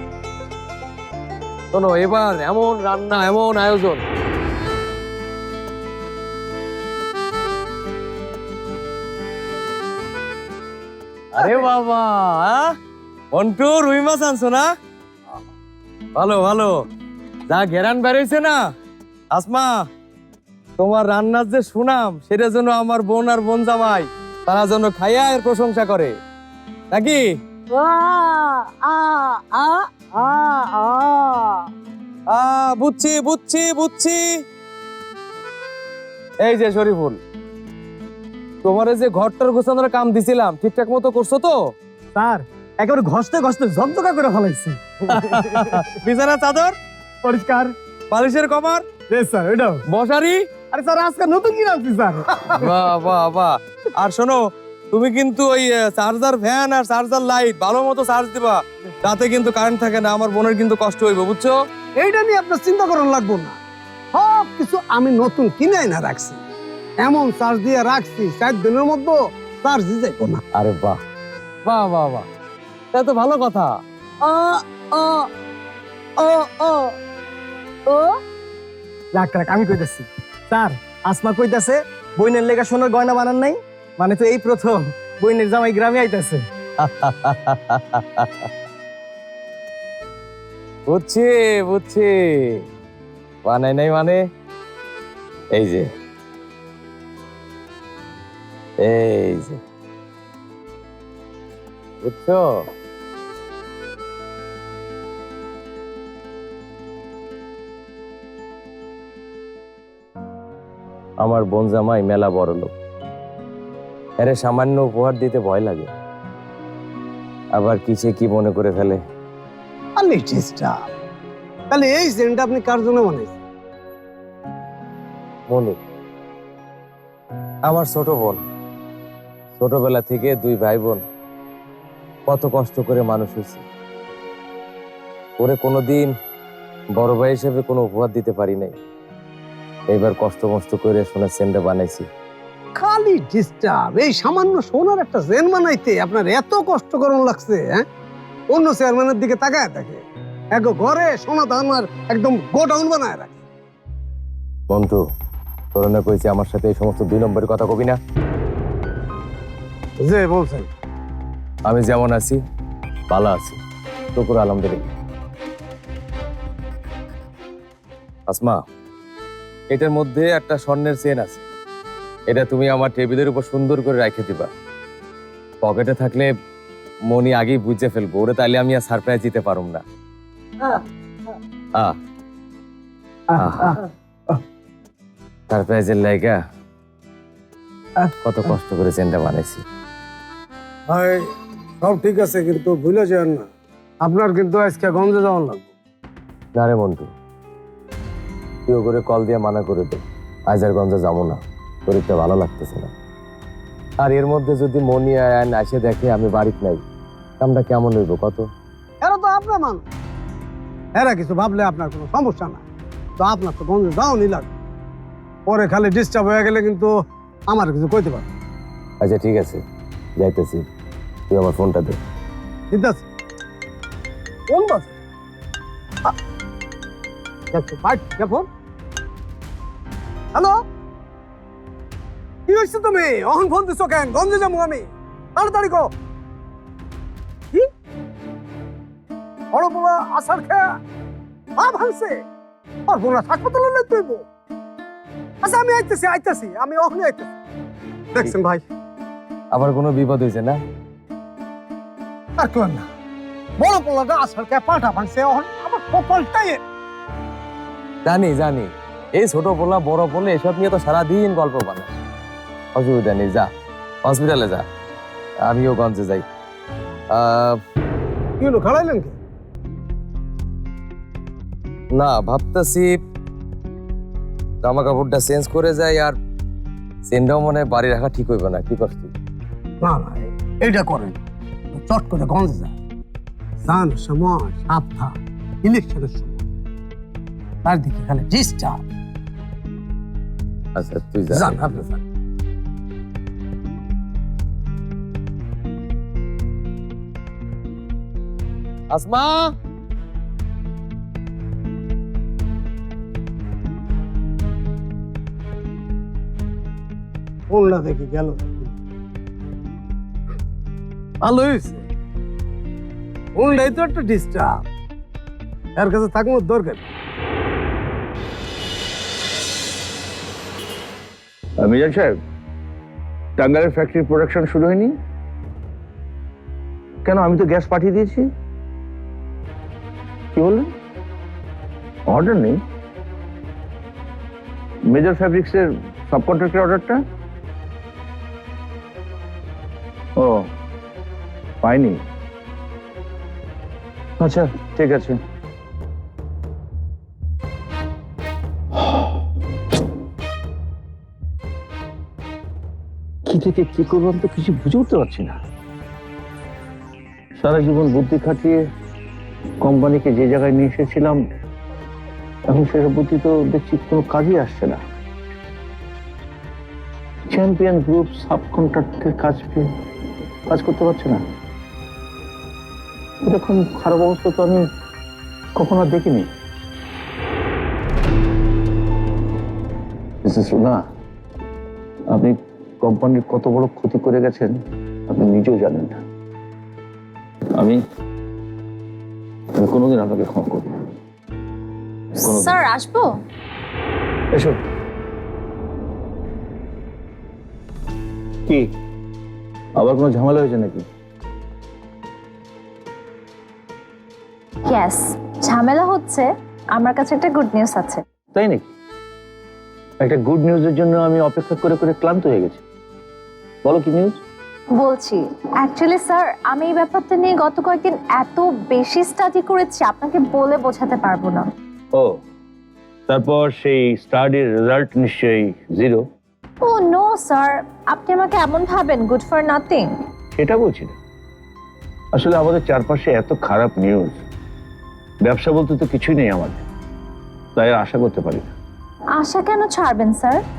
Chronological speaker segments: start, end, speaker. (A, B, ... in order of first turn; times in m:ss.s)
0:01.7-0:04.0 A
0:11.3-0:12.7 A
0:13.3-0:14.7 A
0:16.1-0:16.7 A
0:17.5-0:18.6 A
0:19.3-0:19.8 A
0:20.8-0:26.1 A
0:26.9-0:27.3 A
0:27.8-0:29.4 B
0:29.9-0:31.4 B
0:32.3-0:34.4 A
0:36.4-0:37.2 A
0:38.6-0:41.6 A
0:42.2-0:45.7 B
0:45.1-0:46.7 A
0:47.2-0:47.6 B
0:48.1-0:48.8 A
0:49.1-0:49.8 B
0:49.9-0:50.4 A
0:50.7-0:52.6 B
0:52.5-1:01.5 A
1:02.0-1:03.6 B
1:04.1-1:06.4 B
1:07.0-1:10.4 B
1:10.6-1:11.0 A
1:11.6-1:12.2 A
1:12.9-1:13.8 A
1:16.2-1:16.5 C
1:19.1-1:26.5 C
1:26.8-1:28.5 A
1:30.9-1:32.6 A
1:33.4-1:34.2 A
1:35.5-1:35.9 A
1:38.8-1:39.6 A
1:42.0-1:42.6 A
1:51.2-1:52.7 A
1:54.2-1:55.9 A
1:57.5-1:59.0 A
2:00.0-2:00.7 B
2:01.7-2:03.4 B
2:05.5-2:05.8 A
2:07.6-2:08.4 A
2:09.6-2:11.0 A
2:12.3-2:13.6 A
2:15.4-2:16.1 A
2:16.9-2:18.7 A
2:19.9-2:22.1 A
2:22.7-2:27.8 B
2:28.5-2:33.4 B
2:34.7-2:35.0 A
2:35.7-2:38.0 A
2:40.0-2:40.7 B
2:41.7-2:42.4 A
2:43.1-2:43.6 A
2:44.1-2:44.9 A
2:48.3-2:48.6 A
2:49.7-2:51.4 A
2:52.3-2:54.5 A
2:55.6-2:56.3 A
2:57.1-2:59.8 A
3:03.3-3:03.8 B
3:03.4-3:03.8 A
3:05.5-3:06.4 A
3:08.2-3:09.6 A
3:10.9-3:11.2 B
3:11.8-3:13.5 B
3:14.0-3:15.7 B
3:16.6-3:17.1 A
3:18.7-3:22.9 A
3:24.0-3:26.8 A
3:27.4-3:28.5 A
3:29.0-3:29.8 B
3:31.0-3:32.6 B
3:33.2-3:34.5 B
3:35.5-3:36.9 B
3:37.5-3:38.2 B
3:39.0-3:39.6 A
3:40.2-3:40.6 A
3:41.3-3:42.0 A
3:42.7-3:43.0 B
3:44.5-3:45.0 B
3:47.5-3:48.4 B
3:52.5-3:55.9 B
3:59.5-4:00.6 B
4:01.6-4:02.2 B
4:02.9-4:04.2 B
4:05.4-4:07.3 B
4:08.1-4:08.6 B
4:09.5-4:10.6 A
4:12.4-4:12.9 B
4:13.6-4:16.6 B
4:18.0-4:22.0 A
4:22.7-4:23.5 A
4:24.0-4:24.6 A
4:25.4-4:26.2 A
4:27.1-4:27.6 A
4:28.4-4:29.2 B
4:32.0-4:33.0 A
4:34.6-4:36.2 A
4:37.1-4:39.1 A
4:39.8-4:41.2 B
4:41.7-4:42.7 B
4:43.6-4:46.4 B
4:47.6-4:48.8 B
4:50.8-4:51.6 A
4:51.3-4:52.0 B
4:58.9-4:59.5 A
5:07.5-5:08.7 B
5:11.2-5:11.8 B
5:13.4-5:14.6 B
5:15.8-5:16.8 B
5:21.6-5:22.1 D
5:23.4-5:24.9 D
5:27.0-5:28.2 D
5:30.3-5:30.7 D
5:32.1-5:32.6 D
5:34.9-5:37.0 D
5:41.6-5:42.0 D
5:44.2-5:45.2 D
5:53.2-5:55.4 D
5:57.4-5:58.6 D
5:59.6-6:01.2 D
6:02.5-6:04.8 D
6:07.3-6:09.6 D
6:10.5-6:11.2 D
6:13.2-6:14.6 D
6:15.6-6:16.2 D
6:20.3-6:20.8 D
6:22.1-6:24.5 D
6:25.1-6:26.0 D
6:29.6-6:30.6 D
6:32.2-6:33.1 E
6:39.8-6:40.8 D
6:44.6-6:48.0 E
6:48.3-6:48.6 D
6:50.0-6:52.6 D
6:53.6-6:54.2 D
6:54.8-7:01.5 E
7:03.1-7:06.0 D
7:06.6-7:09.9 E
7:10.3-7:10.9 D
7:12.1-7:14.2 D
7:15.2-7:16.6 D
7:17.6-7:18.5 D
7:19.2-7:20.4 E